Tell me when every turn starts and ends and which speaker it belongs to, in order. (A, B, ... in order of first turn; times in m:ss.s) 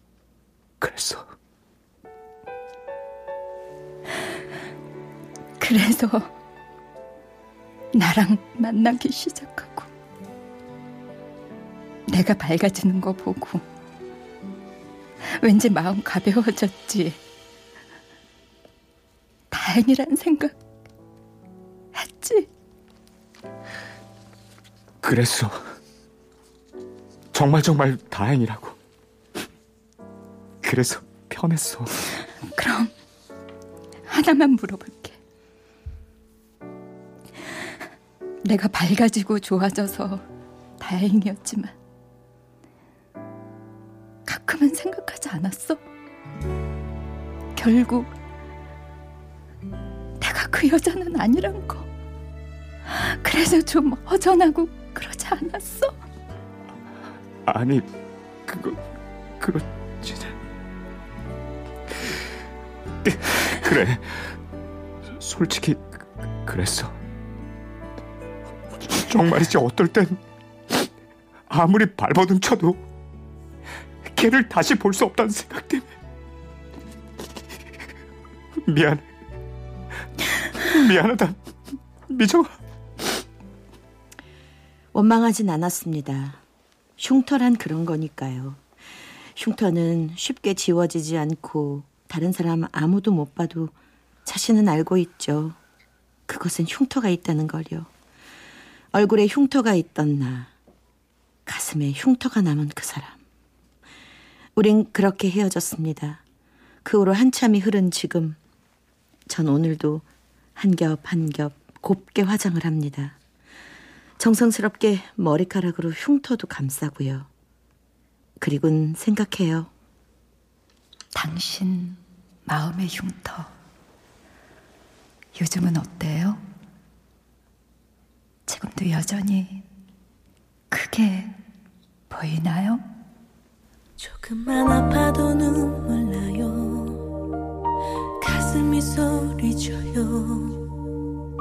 0:00.8-0:01.3 A
0:05.6-0:06.3 B
0:07.9-0:09.9 B
0:12.1-0:13.6 B
0:15.2-0:17.2 B
0:19.5-0:20.6 B
0:21.9-0:22.5 B
0:25.0-0:25.6 A
0:27.3-0:28.8 A
0:30.6-0:32.0 A
0:32.4-0:32.9 B
0:34.1-0:35.2 B
0:38.4-0:40.2 B
0:40.8-0:41.8 B
0:44.3-0:45.8 B
0:47.6-0:48.1 B
0:50.2-0:51.9 B
0:52.9-0:56.0 B
0:57.4-0:57.9 A
0:58.5-0:58.8 A
0:59.4-1:00.4 A
1:03.0-1:04.4 A
1:05.2-1:07.0 A
1:08.8-1:10.2 A
1:11.5-1:12.8 A
1:14.0-1:15.9 A
1:18.6-1:19.1 A
1:20.2-1:21.4 A
1:22.1-1:22.6 A
1:24.9-1:26.4 C
1:27.0-1:28.6 C
1:29.4-1:33.7 C
1:34.3-1:35.6 C
1:36.3-1:37.9 C
1:38.9-1:40.5 C
1:41.5-1:43.2 C
1:44.6-1:46.2 C
1:46.8-1:48.4 C
1:49.3-1:53.2 C
1:54.2-1:57.3 C
1:58.4-1:59.7 C
2:01.1-2:03.5 B
2:05.4-2:06.4 B
2:08.5-2:09.6 B
2:10.7-2:11.3 B
2:12.1-2:12.8 B
2:14.0-2:17.2 D
2:18.2-2:20.8 D